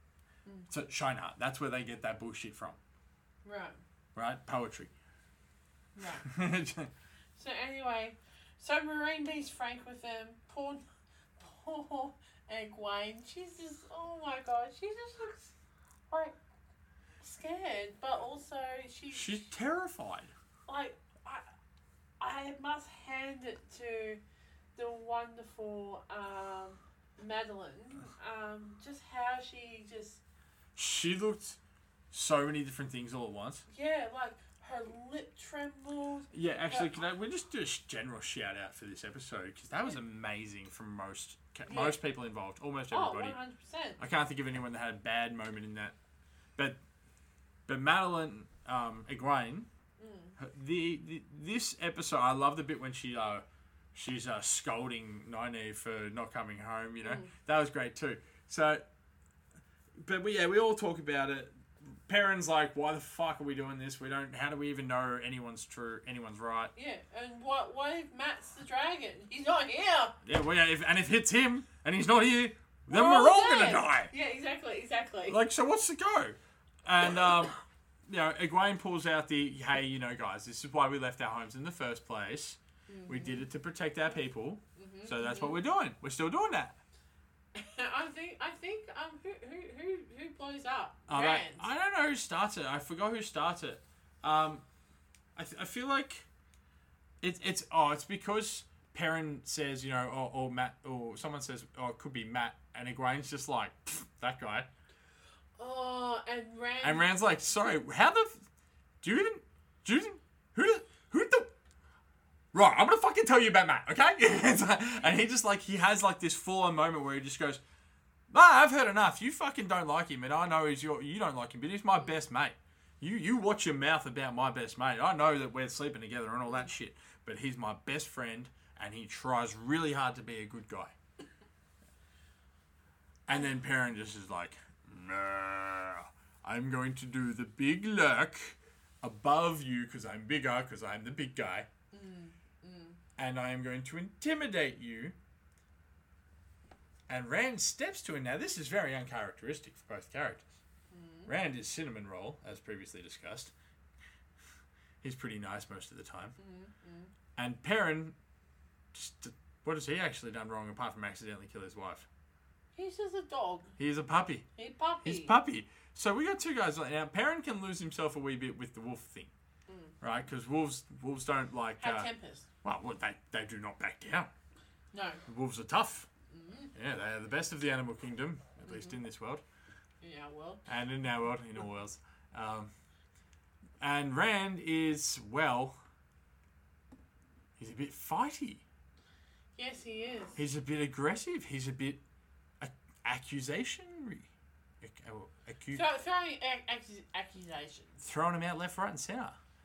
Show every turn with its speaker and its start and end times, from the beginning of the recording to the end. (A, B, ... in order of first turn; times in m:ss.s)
0:00.7-0:02.8 A
0:03.4-0:03.8 B
0:04.1-0:04.9 A
0:05.9-0:06.3 B
0:06.2-0:06.9 A
0:07.4-0:10.8 B
0:11.4-0:15.5 B
0:16.1-0:16.4 B
0:17.2-0:19.5 B
0:19.1-0:20.3 A
0:20.7-0:21.4 B
0:22.2-0:24.2 B
0:24.7-0:30.2 B
0:30.8-0:31.6 A
0:32.1-0:33.6 A
0:33.7-0:36.9 B
0:36.3-0:43.4 A
0:41.6-0:42.0 B
0:42.9-0:44.0 B
0:44.0-0:46.0 A
0:47.7-0:49.7 A
0:50.0-0:50.4 B
0:50.4-0:58.8 A
0:57.0-0:57.3 B
1:00.0-1:06.7 A
1:06.7-1:10.2 B
1:10.2-1:14.1 A
1:12.9-1:15.4 B
1:15.3-1:26.8 A
1:22.9-1:23.5 B
1:24.8-1:25.6 B
1:27.5-1:31.7 B
1:31.1-1:34.6 A
1:35.4-1:36.3 A
1:37.2-1:44.7 A
1:45.6-1:47.1 B
1:46.8-1:48.4 A
1:49.0-1:51.5 A
1:52.5-1:57.6 A
1:58.3-2:10.9 A
2:13.3-2:21.7 A
2:21.9-2:23.0 B
2:23.2-2:25.2 A
2:27.1-2:30.5 A
2:30.9-2:31.3 B
2:31.2-2:33.5 A
2:35.0-2:36.4 A
2:36.4-2:37.1 B
2:37.4-2:38.1 A
2:38.9-2:42.0 A
2:42.7-2:43.7 B
2:43.8-2:44.5 A
2:44.6-2:45.4 B
2:45.0-2:49.3 A
2:49.7-2:49.9 B
2:50.0-2:52.1 A
2:51.8-2:52.5 B
2:52.6-2:54.3 A
2:54.9-2:55.2 B
2:55.3-2:56.1 A
2:56.3-2:56.7 B
2:56.7-2:59.4 A
2:58.6-2:59.0 B
3:00.0-3:00.6 B
3:00.7-3:02.7 A
3:03.8-3:05.8 A
3:07.6-3:08.6 A
3:09.6-3:10.4 B
3:10.4-3:12.0 A
3:12.6-3:14.3 A
3:14.8-3:15.8 A
3:15.7-3:18.0 B
3:18.0-3:19.4 A